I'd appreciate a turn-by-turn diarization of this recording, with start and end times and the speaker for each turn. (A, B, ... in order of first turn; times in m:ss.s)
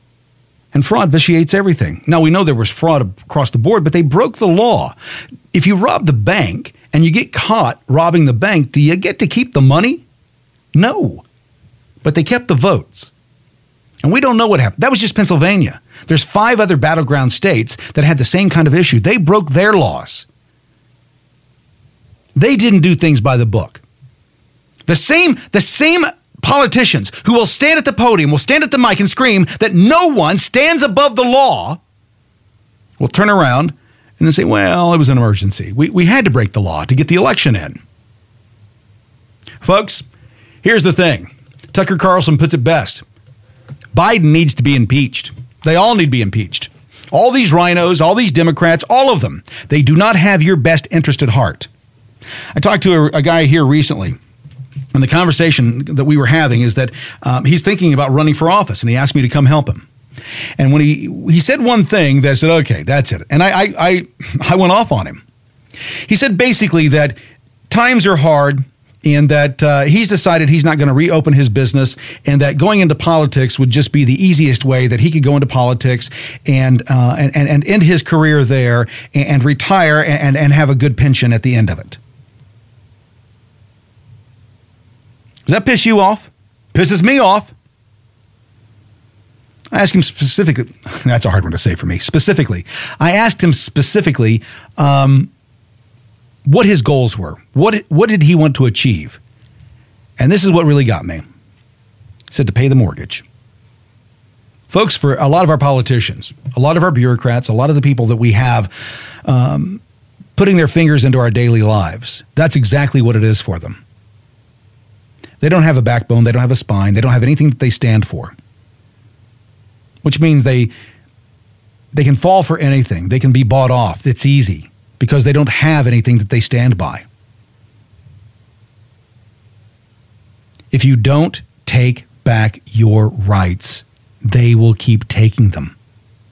0:00.7-0:05.0 A
0:05.5-0:10.0 A
0:10.7-0:11.2 A
0:12.0-0:13.1 A
0:14.0-0:20.3 A
0:22.4-0:23.8 A
0:24.9-0:31.8 A
0:33.0-0:37.8 A
0:39.6-0:40.0 A
0:40.6-0:43.0 A
0:43.9-0:51.7 A
0:52.6-0:54.2 A
0:54.9-0:59.8 A
1:00.6-1:05.2 A
1:06.1-1:07.2 A
1:07.7-1:22.0 A
1:25.5-1:27.5 A
1:29.7-1:35.3 A
1:36.4-1:39.2 A
1:40.2-1:41.2 A
1:42.3-1:43.2 A
1:44.7-1:49.8 A
1:50.4-1:53.8 A
1:55.4-1:58.4 A
2:00.0-2:00.7 A
2:01.9-2:07.0 A
2:10.7-2:15.7 A